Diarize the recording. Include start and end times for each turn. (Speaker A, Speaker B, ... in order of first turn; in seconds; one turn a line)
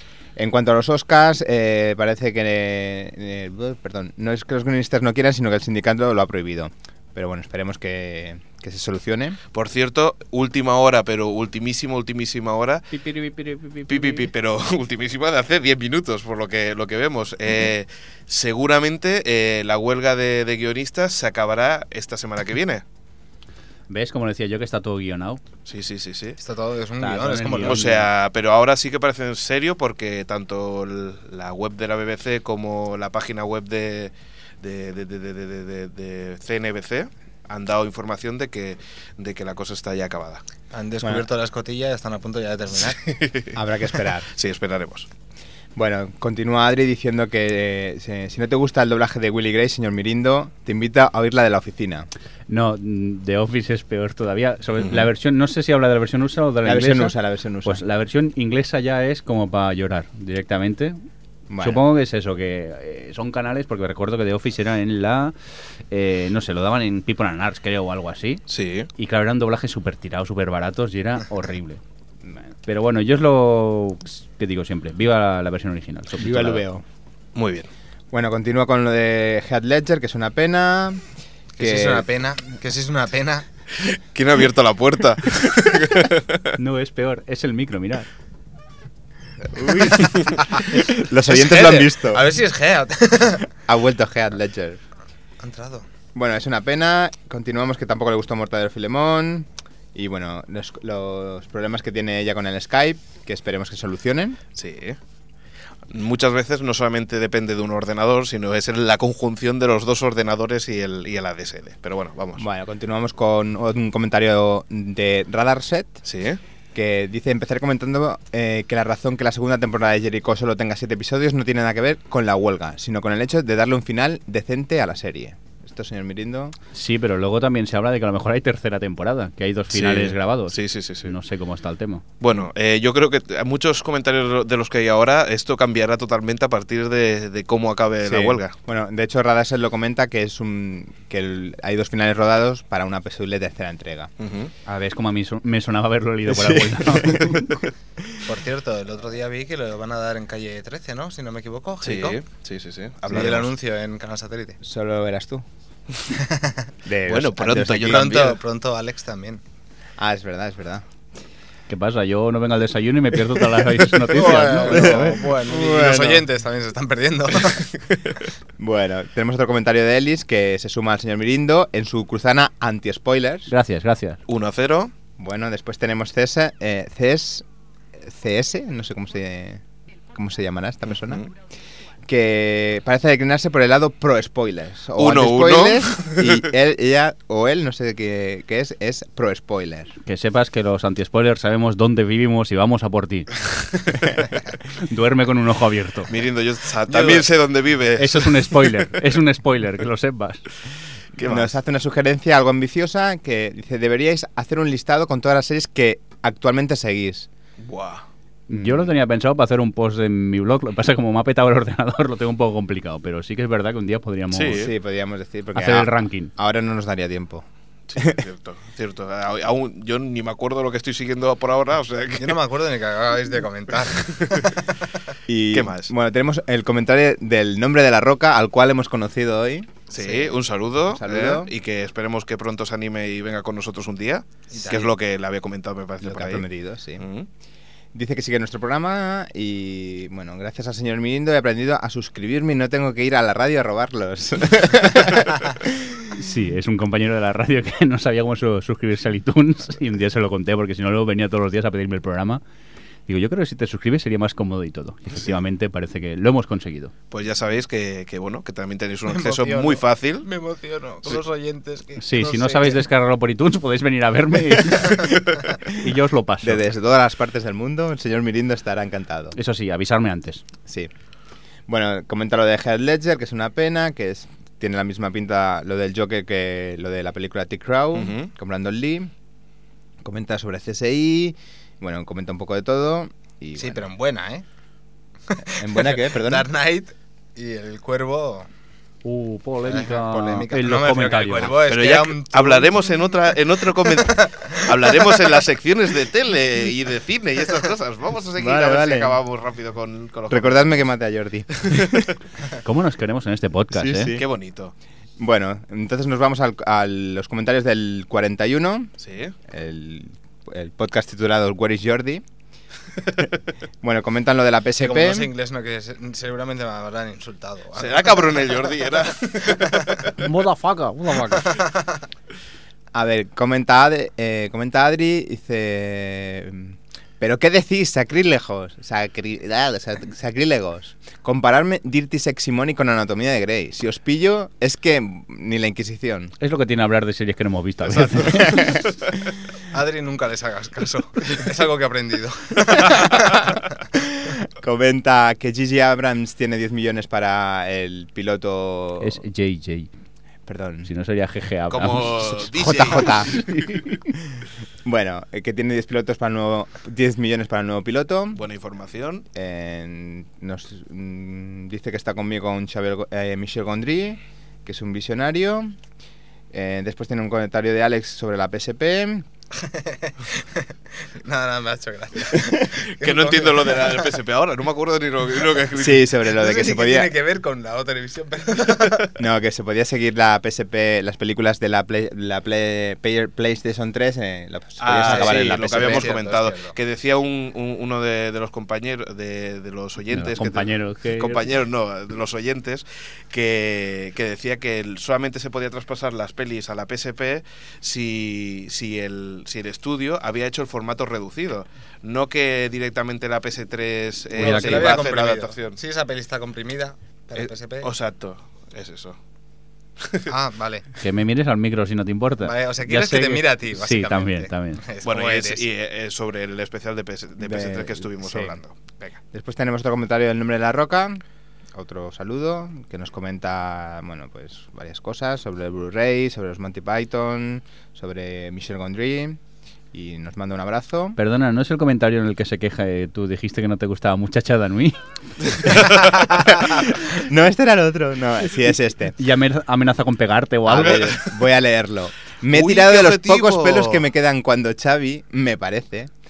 Speaker A: 0.4-9.4
Speaker B: 9.5-12.9
Speaker C: 12.9-14.3
Speaker B: 13.9-22.8
Speaker C: 23.9-25.4
Speaker B: 25.7-26.4
Speaker D: 26.4-27.9
Speaker C: 27.0-28.1
Speaker B: 27.6-40.4
Speaker D: 40.7-43.0
Speaker B: 43.0-43.6
Speaker A: 43.5-44.3
Speaker B: 44.1-45.1
Speaker A: 45.8-52.1
Speaker C: 52.5-61.0
Speaker B: 54.8-55.1
Speaker A: 56.6-57.8
Speaker A: 61.5-61.8
Speaker C: 61.6-65.3
Speaker C: 65.9-68.4
Speaker B: 68.5-68.9
Speaker C: 69.0-71.8
Speaker C: 72.7-76.6
Speaker A: 76.2-76.8
Speaker B: 77.3-77.7
Speaker A: 78.1-81.0
Speaker D: 81.6-83.5
Speaker A: 81.6-82.1
Speaker B: 83.8-86.6
Speaker C: 86.6-88.1
Speaker A: 89.5-92.3
Speaker D: 90.4-93.5
Speaker A: 93.7-94.8
Speaker D: 95.4-95.9
Speaker A: 96.2-104.4
Speaker B: 104.5-105.0
Speaker B: 105.9-112.4
Speaker A: 112.4-116.0
Speaker B: 116.0-116.4
Speaker A: 116.7-126.6
Speaker C: 126.7-132.0
Speaker B: 129.7-131.1
Speaker B: 132.2-138.5
Speaker A: 138.0-144.1
Speaker B: 144.2-144.5
Speaker C: 144.7-147.6
Speaker A: 146.3-148.2
Speaker D: 148.2-152.2
Speaker B: 151.8-153.5
Speaker D: 153.1-154.6
Speaker A: 154.6-155.4
Speaker D: 156.1-156.7
Speaker A: 156.8-158.3
Speaker B: 157.1-158.4
Speaker D: 157.8-159.4
Speaker A: 160.0-160.8
Speaker C: 161.7-165.2
Speaker D: 164.1-167.7
Speaker A: 164.2-166.2
Speaker B: 167.5-168.1
Speaker A: 168.6-173.5
Speaker C: 173.5-174.2
Speaker B: 174.3-174.9
Speaker A: 175.2-181.3
Speaker A: 182.1-189.9
Speaker B: 185.0-186.4
Speaker C: 190.1-193.4
Speaker C: 194.8-196.1
Speaker B: 196.1-199.0
Speaker D: 196.9-197.2
Speaker C: 198.0-200.4
Speaker B: 201.2-201.6
Speaker A: 201.2-207.3
Speaker B: 207.6-208.1
Speaker C: 208.5-214.7
Speaker A: 208.5-208.9
Speaker B: 214.3-214.7
Speaker A: 214.5-218.2
Speaker C: 215.6-216.3
Speaker B: 217.9-222.4
Speaker D: 222.2-224.6
Speaker B: 224.0-224.5
Speaker A: 225.3-230.3
Speaker B: 225.5-225.9
Speaker B: 229.9-236.4
Speaker D: 230.0-230.4
Speaker A: 230.9-231.5
Speaker D: 234.5-234.9
Speaker A: 236.0-237.1
Speaker B: 237.0-237.3
Speaker A: 237.9-246.2
Speaker C: 246.1-252.4
Speaker C: 253.1-256.9
Speaker B: 257.1-260.3
Speaker D: 259.1-262.8
Speaker C: 262.0-266.6
Speaker A: 266.4-269.4
Speaker C: 269.4-270.4
Speaker A: 270.7-270.9
Speaker A: 271.7-279.1
Speaker B: 277.9-278.3
Speaker A: 280.0-283.9
Speaker D: 283.6-284.4
Speaker D: 285.3-288.5
Speaker A: 285.6-286.5
Speaker C: 289.1-291.6
Speaker D: 289.6-292.9
Speaker B: 291.6-300.7
Speaker D: 293.8-295.1
Speaker A: 298.4-299.2
Speaker A: 300.3-302.1
Speaker B: 301.6-302.1
Speaker C: 302.6-304.1
Speaker A: 303.7-304.2
Speaker B: 304.1-304.7
Speaker A: 305.2-308.9
Speaker B: 309.0-309.3
Speaker A: 309.5-312.2
Speaker A: 313.8-315.3
Speaker D: 314.8-318.6
Speaker B: 317.8-320.3
Speaker C: 320.2-321.6
Speaker D: 321.5-321.9
Speaker A: 322.9-336.3
Speaker C: 336.4-338.7
Speaker B: 338.2-338.8
Speaker A: 338.3-338.8
Speaker D: 339.7-343.5
Speaker A: 344.4-349.2
Speaker C: 349.0-349.9
Speaker A: 350.4-350.9
Speaker C: 350.9-352.4
Speaker B: 351.7-353.6
Speaker A: 352.1-358.4
Speaker C: 352.9-353.8
Speaker B: 358.3-359.2
Speaker A: 359.4-365.8
Speaker A: 366.5-369.2
Speaker D: 369.6-374.2
Speaker B: 372.9-376.2
Speaker A: 375.7-377.1
Speaker D: 376.2-379.1
Speaker A: 379.1-386.1
Speaker B: 384.8-405.8
Speaker D: 384.9-386.8
Speaker C: 390.1-391.5
Speaker D: 404.4-407.9
Speaker C: 404.4-405.1
Speaker B: 407.4-409.2
Speaker B: 410.0-410.3
Speaker D: 410.3-410.9
Speaker C: 411.0-414.8
Speaker D: 412.4-415.7
Speaker B: 415.0-419.2
Speaker A: 417.4-418.6
Speaker A: 419.3-421.2
Speaker A: 421.7-429.4
Speaker A: 429.9-431.2
Speaker C: 431.2-435.9
Speaker B: 435.7-436.1
Speaker A: 436.1-439.1
Speaker C: 439.2-441.2
Speaker A: 440.6-446.1
Speaker B: 442.5-444.0